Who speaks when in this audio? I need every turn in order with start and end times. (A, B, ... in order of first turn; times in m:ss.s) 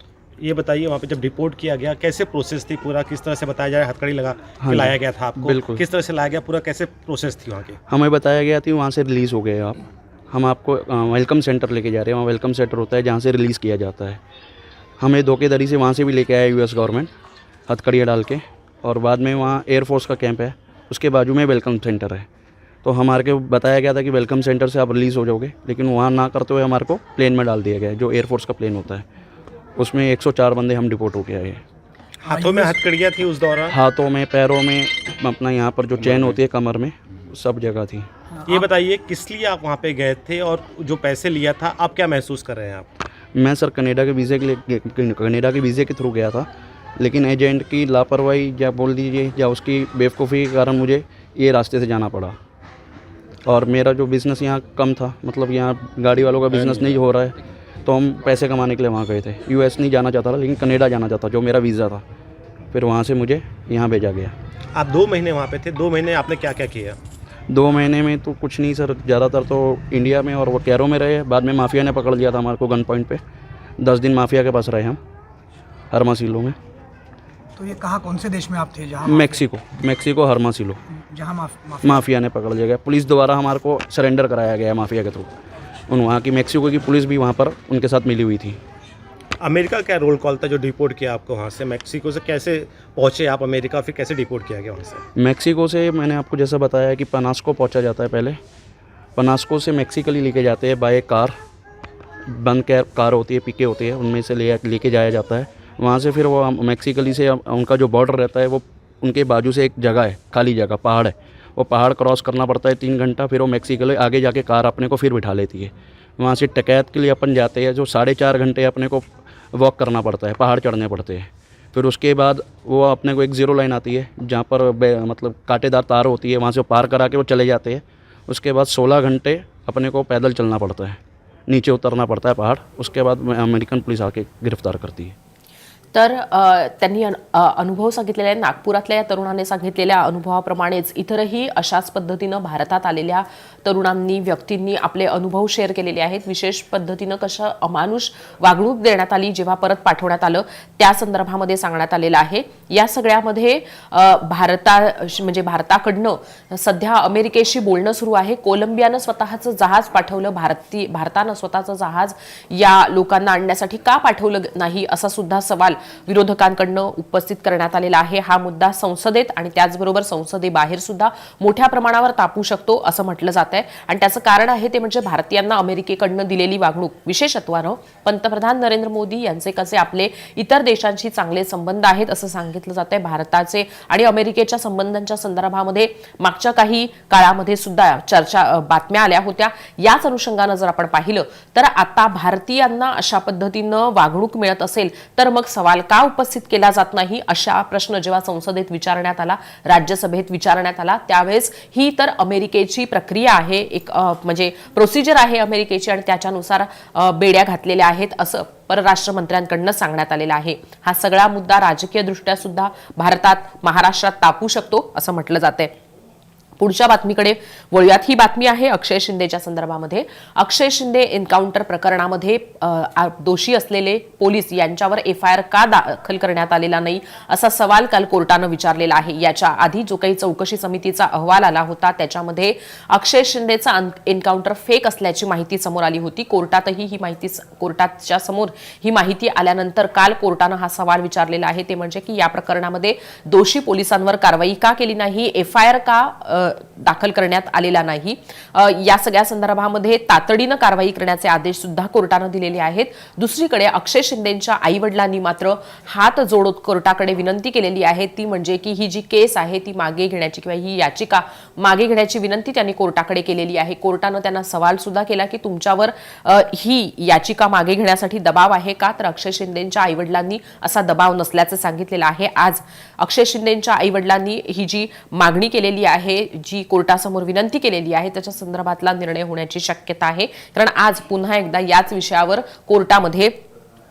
0:00.4-0:07.8 A
0:04.6-0:05.8 B
0:07.9-0:14.2 B
0:15.0-0:17.1 B
0:17.7-0:22.2 B
0:22.8-0:29.0 B
0:29.8-0:31.6 B
0:32.2-0:33.8 A
0:32.3-0:32.8 C
0:33.7-0:38.1 B
0:38.5-0:42.9 A
0:43.4-0:46.5 B
0:47.0-0:52.4 B
0:53.4-1:02.0 B
1:02.7-1:04.3 B
1:04.7-1:07.0 A
1:07.5-1:13.2 B
1:13.8-1:15.0 B
1:15.9-1:16.5 B
1:17.6-1:19.3 C
1:19.0-1:20.8 B
1:21.1-1:21.9 C
1:21.8-1:25.3 B
1:25.9-1:28.6 B
1:29.4-1:35.0 A
1:35.2-1:38.4 B
1:39.2-1:41.3 B
1:42.3-2:15.1 B
2:15.9-3:35.7 D
3:36.6-4:43.4 D